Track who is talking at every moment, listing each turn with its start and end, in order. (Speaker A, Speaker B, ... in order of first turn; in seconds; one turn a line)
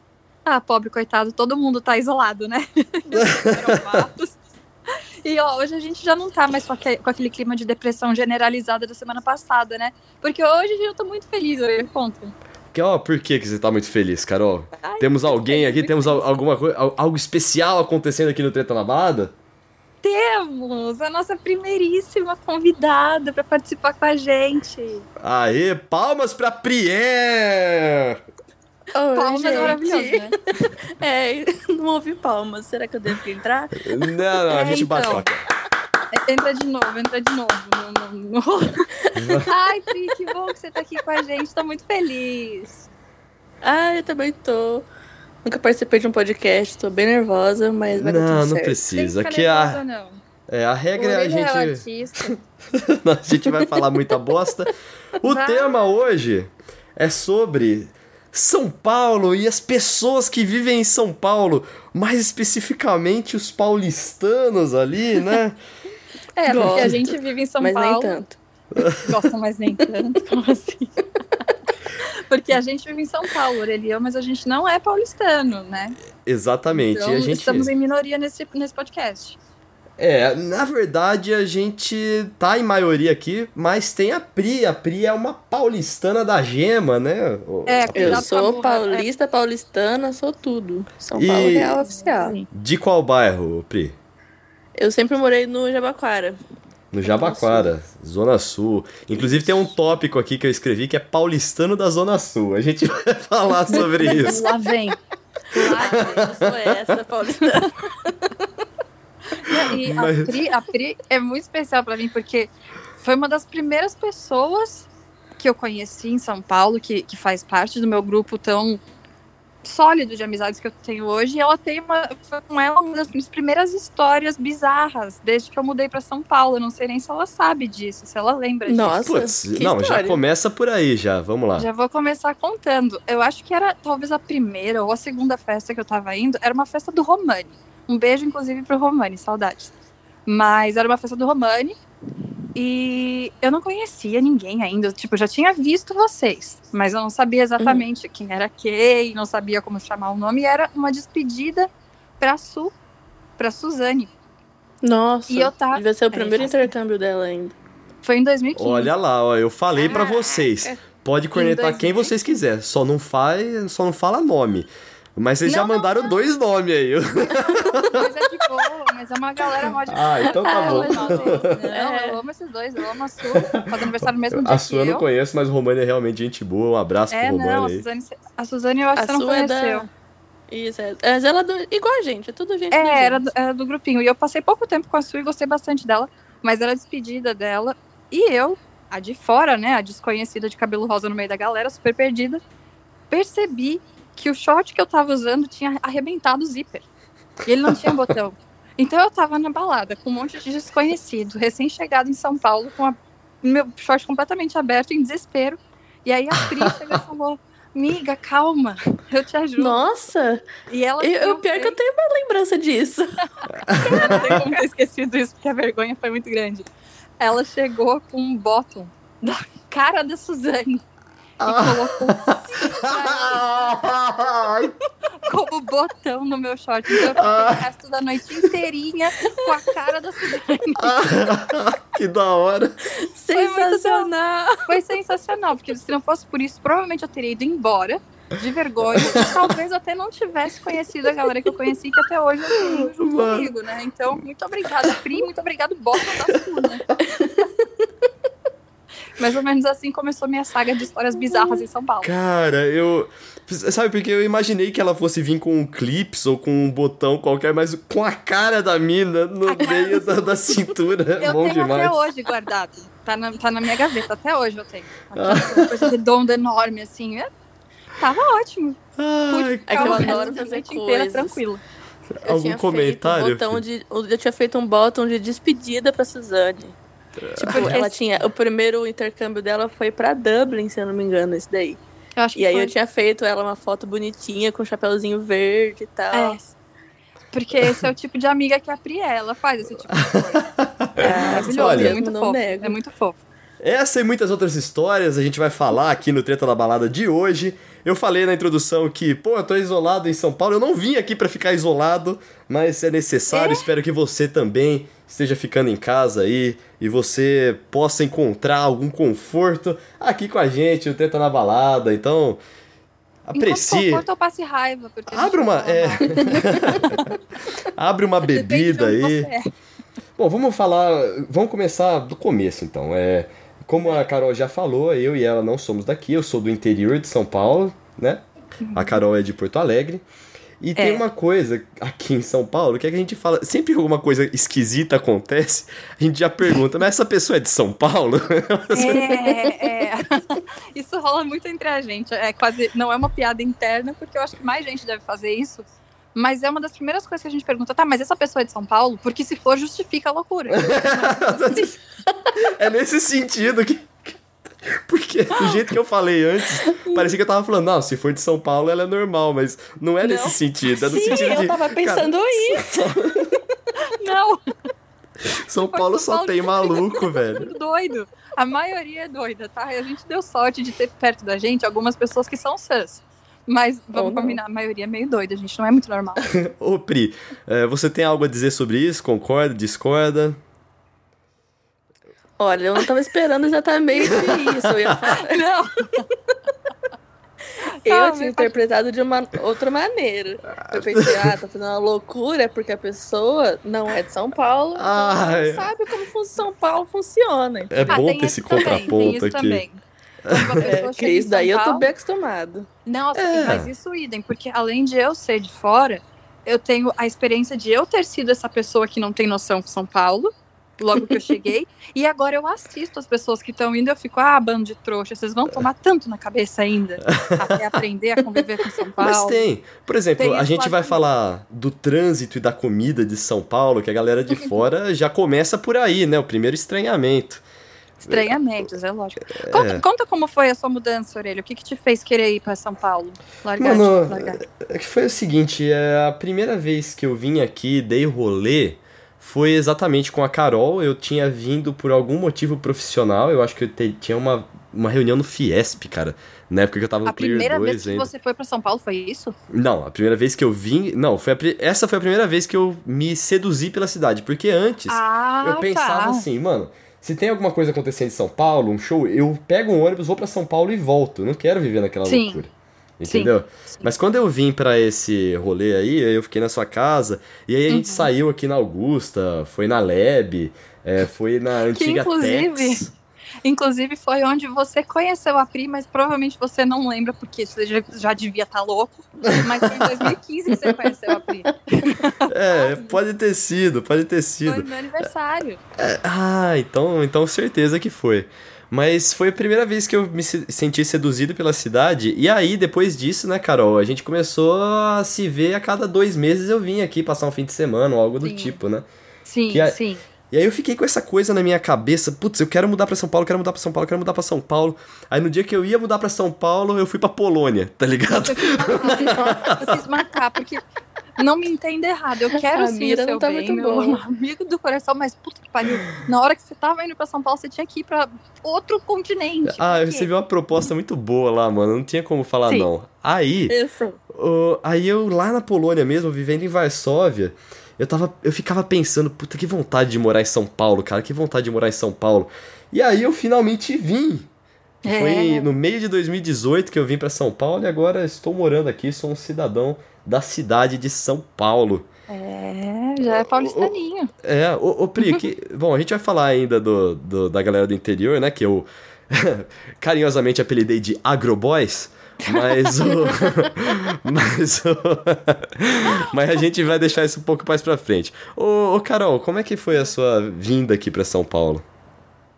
Speaker A: 0.5-4.4
Speaker B: 3.1-4.0
Speaker A: 5.2-12.3
Speaker B: 12.7-19.3
Speaker A: 14.8-16.3
Speaker A: 20.0-25.1
Speaker B: 25.2-28.2
Speaker C: 28.9-30.4
Speaker A: 29.1-30.4
Speaker C: 31.0-34.0
Speaker B: 33.8-35.4
Speaker A: 34.5-35.2
Speaker A: 36.1-38.9
Speaker B: 39.1-39.5
Speaker A: 39.5-42.8
Speaker C: 43.6-44.9
Speaker C: 45.4-48.8
Speaker B: 47.9-49.8
Speaker A: 48.9-50.2
Speaker B: 50.5-65.6
Speaker A: 51.0-52.3
Speaker A: 55.2-55.8
Speaker A: 66.3-68.2
Speaker C: 66.5-68.4
Speaker B: 66.5-67.0
Speaker B: 68.8-69.0
Speaker A: 69.0-70.9
Speaker A: 72.3-76.0
Speaker B: 76.2-77.7
Speaker A: 76.7-79.4
Speaker B: 80.0-88.3
Speaker A: 87.7-89.1
Speaker C: 87.9-92.4
Speaker B: 91.1-91.8
Speaker A: 91.8-92.5
Speaker B: 92.5-94.0
Speaker C: 94.8-96.4
Speaker B: 96.9-104.4
Speaker C: 97.0-97.7
Speaker A: 103.7-105.0
Speaker C: 104.0-104.3
Speaker A: 105.5-106.3
Speaker C: 105.6-108.5
Speaker B: 105.9-106.5
Speaker A: 109.4-112.5
Speaker B: 109.5-110.4
Speaker A: 113.0-114.9
Speaker A: 115.4-118.8
Speaker A: 119.6-129.1
Speaker C: 128.7-130.2
Speaker B: 129.0-131.7
Speaker A: 131.6-139.7
Speaker A: 140.2-141.8
Speaker A: 142.5-152.7
Speaker C: 147.6-147.8
Speaker A: 153.4-154.1
Speaker C: 154.8-157.6
Speaker A: 155.3-156.7
Speaker A: 158.0-158.9
Speaker B: 158.5-168.0
Speaker C: 159.8-160.8
Speaker A: 161.3-162.1
Speaker A: 165.4-166.3
Speaker A: 167.3-175.0
Speaker B: 169.9-171.7
Speaker C: 170.3-172.2
Speaker B: 173.4-177.8
Speaker A: 177.1-179.9
Speaker C: 178.9-179.9
Speaker C: 180.5-183.2
Speaker A: 182.7-192.4
Speaker A: 193.1-196.8
Speaker A: 197.4-209.9
Speaker B: 197.7-198.0
Speaker C: 209.6-210.5
Speaker A: 210.7-211.8
Speaker C: 211.0-213.2
Speaker B: 213.7-214.4
Speaker A: 213.7-216.7
Speaker C: 213.8-214.6
Speaker A: 217.2-220.8
Speaker B: 221.4-224.7
Speaker A: 221.4-224.5
Speaker A: 225.2-231.3
Speaker B: 226.9-227.6
Speaker C: 229.2-229.6
Speaker B: 230.8-232.8
Speaker C: 232.9-234.8
Speaker A: 233.3-246.8
Speaker B: 239.0-239.3
Speaker B: 242.6-243.5
Speaker C: 247.0-247.9
Speaker A: 249.1-252.1
Speaker C: 251.3-251.6
Speaker B: 252.0-262.0
Speaker A: 259.5-260.3
Speaker C: 259.6-259.9
Speaker A: 261.2-267.3
Speaker B: 265.1-265.9
Speaker A: 268.0-268.8
Speaker B: 269.0-270.2
Speaker A: 269.3-271.6
Speaker C: 269.7-271.4
Speaker B: 272.2-273.6
Speaker C: 272.2-276.8
Speaker B: 277.2-277.8
Speaker C: 277.4-281.8
Speaker A: 277.4-277.9
Speaker A: 282.1-282.7
Speaker C: 282.3-286.4
Speaker A: 286.1-286.5
Speaker A: 287.3-293.2
Speaker B: 289.9-292.0
Speaker C: 291.0-292.8
Speaker B: 293.6-312.4
Speaker A: 303.3-303.6
Speaker B: 313.3-314.0
Speaker A: 313.3-317.1
Speaker B: 315.1-317.1
Speaker B: 317.7-319.3
Speaker A: 318.3-319.4
Speaker B: 320.2-328.2
Speaker A: 328.6-329.0
Speaker B: 328.7-330.0
Speaker B: 330.6-339.6
Speaker A: 330.8-331.0
Speaker A: 338.7-351.8
Speaker B: 350.5-351.7
Speaker B: 352.4-363.3
Speaker C: 360.0-362.7
Speaker A: 361.1-361.4
Speaker A: 363.9-364.4
Speaker B: 365.3-367.5
Speaker A: 365.6-376.3
Speaker C: 373.9-374.4
Speaker B: 376.3-380.4
Speaker C: 382.4-385.4
Speaker A: 384.0-386.0
Speaker C: 387.8-398.0
Speaker A: 387.9-388.5
Speaker B: 390.6-391.3
Speaker B: 394.8-395.7
Speaker B: 397.7-399.6
Speaker A: 397.9-399.8
Speaker C: 398.5-398.9
Speaker B: 400.2-400.7
Speaker A: 400.3-401.9
Speaker C: 400.6-402.7
Speaker A: 402.9-419.4
Speaker B: 403.1-403.7
Speaker C: 410.9-411.2
Speaker B: 417.0-417.7
Speaker B: 419.0-427.4
Speaker A: 420.2-421.0
Speaker A: 424.3-424.6
Speaker B: 428.0-428.3
Speaker A: 428.1-434.4
Speaker B: 429.3-429.8
Speaker B: 433.6-448.1
Speaker A: 447.1-449.3
Speaker B: 449.5-462.5
Speaker A: 454.9-456.2
Speaker A: 462.1-462.4
Speaker B: 463.0-472.9
Speaker A: 463.1-463.9
Speaker A: 467.7-468.1
Speaker A: 471.7-472.8
Speaker A: 473.4-483.0
Speaker B: 479.2-480.1
Speaker B: 482.3-485.0
Speaker A: 484.4-485.6
Speaker B: 485.8-498.9
Speaker A: 498.2-498.6
Speaker A: 499.2-500.0
Speaker B: 499.5-499.8
Speaker B: 500.3-509.8
Speaker A: 508.2-510.6
Speaker A: 511.2-520.1
Speaker C: 512.3-514.0
Speaker B: 519.4-523.5
Speaker C: 523.5-524.0
Speaker B: 524.1-534.3
Speaker B: 534.8-541.9
Speaker A: 534.8-535.5
Speaker A: 542.1-544.1
Speaker B: 543.0-561.6
Speaker A: 552.2-553.5
Speaker A: 555.8-556.1